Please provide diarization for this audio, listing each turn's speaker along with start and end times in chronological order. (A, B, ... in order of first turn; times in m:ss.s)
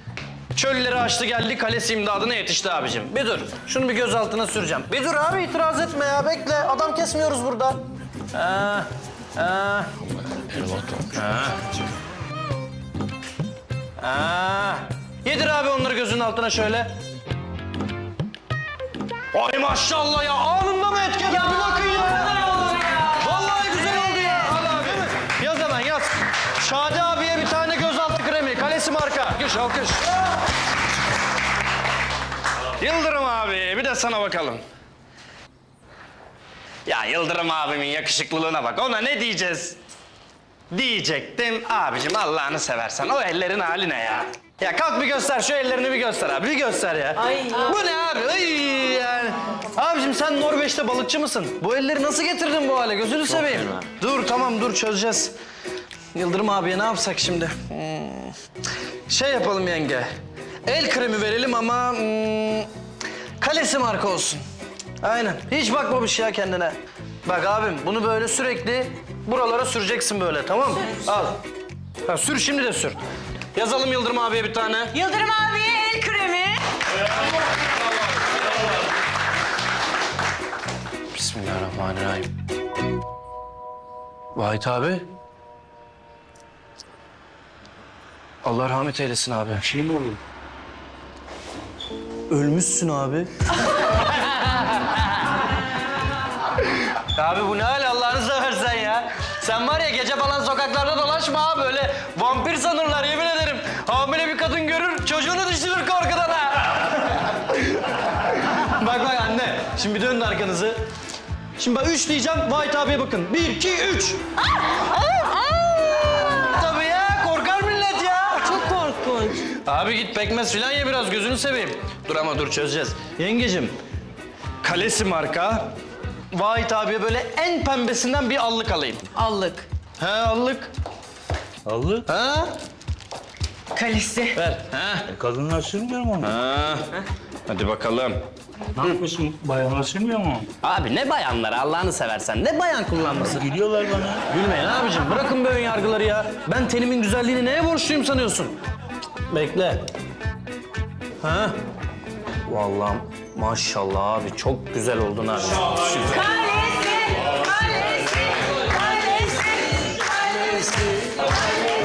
0:00.5-0:07.8 A
0:08.3-0:09.9 A
0:11.1-0:11.6 A
0:14.0-0:17.0 A
0:19.3-0:30.1 A
0:32.8-0:34.6 A
0:36.9-0:39.8 A
0:40.7-0:55.3 A
0:56.1-0:58.3 A
0:59.1-1:00.1 A
1:00.7-1:02.7 A
1:03.4-1:04.4 A
1:05.0-1:11.4 A
1:12.0-1:13.0 A
1:13.5-1:15.0 A
1:15.4-1:16.2 B
1:21.1-1:22.3 A
1:24.4-1:25.1 A
1:28.4-1:29.6 A
1:32.3-1:33.3 A
1:34.0-1:35.0 A
1:37.1-1:47.6 A
1:48.6-1:50.8 A
1:51.6-1:54.2 A
1:55.4-1:55.6 B
1:56.2-1:58.6 A
1:59.5-2:03.8 A
2:04.6-2:05.7 A
2:06.3-2:09.1 A
2:10.0-2:10.7 A
2:11.7-2:12.0 C
2:12.1-2:12.6 A
2:14.3-2:15.1 A
2:15.1-2:16.3 C
2:16.2-2:16.9 A
2:17.5-2:18.2 A
2:18.8-2:20.5 C
2:20.6-2:23.5 A
2:23.4-2:24.2 C
2:24.3-2:28.6 A
2:29.3-2:29.8 A
2:31.2-2:31.6 A
2:32.5-2:36.4 A
2:36.4-2:38.2 B
2:38.7-2:39.7 B